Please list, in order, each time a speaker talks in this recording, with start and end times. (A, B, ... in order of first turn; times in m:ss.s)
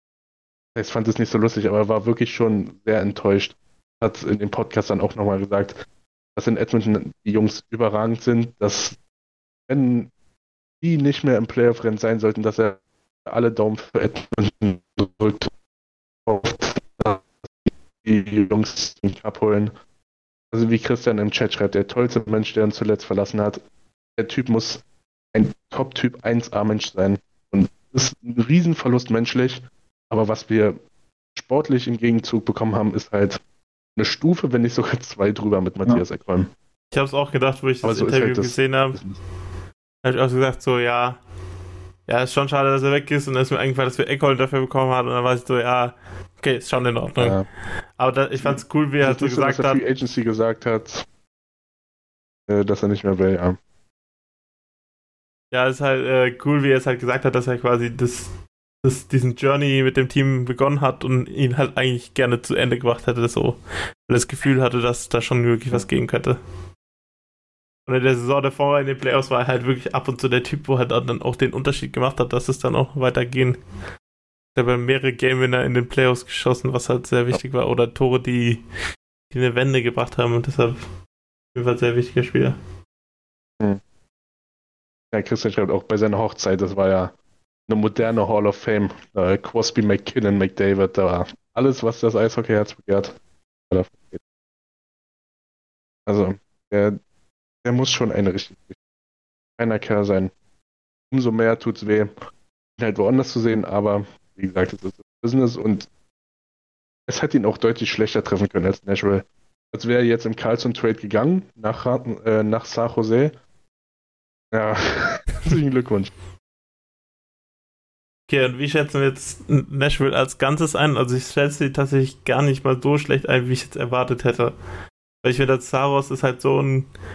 0:00.8-0:05.8 A
0:06.4-0:09.0 A
0:09.7-0:10.1 A
0:10.8-0:15.5 A
0:16.3-0:17.3 A
0:18.0-0:19.7 A
0:20.5-0:23.6 A
0:24.2-0:24.8 A
0:25.3-0:30.8 A
0:31.4-0:33.4 A
0:34.0-0:36.5 A
0:36.9-0:39.0 B
0:37.8-0:39.2 A
0:40.0-0:41.2 B
0:42.1-0:47.4 B
0:47.2-0:47.5 A
0:48.0-0:49.8 B
0:48.4-0:51.1 A
0:52.5-0:53.6 A
0:55.5-1:06.4 B
1:07.9-1:13.6 B
1:14.6-1:18.6 B
1:19.3-1:20.8 B
1:21.5-1:22.6 B
1:25.1-1:27.1 A
1:27.7-1:33.2 A
1:33.7-1:34.2 A
1:36.1-1:37.0 A
1:37.6-1:38.8 A
1:39.6-1:40.3 A
1:41.1-1:42.1 A
1:42.8-1:45.9 A
1:47.1-1:53.3 A
1:54.5-1:56.1 A
1:58.3-2:04.6 B
2:05.2-2:06.9 B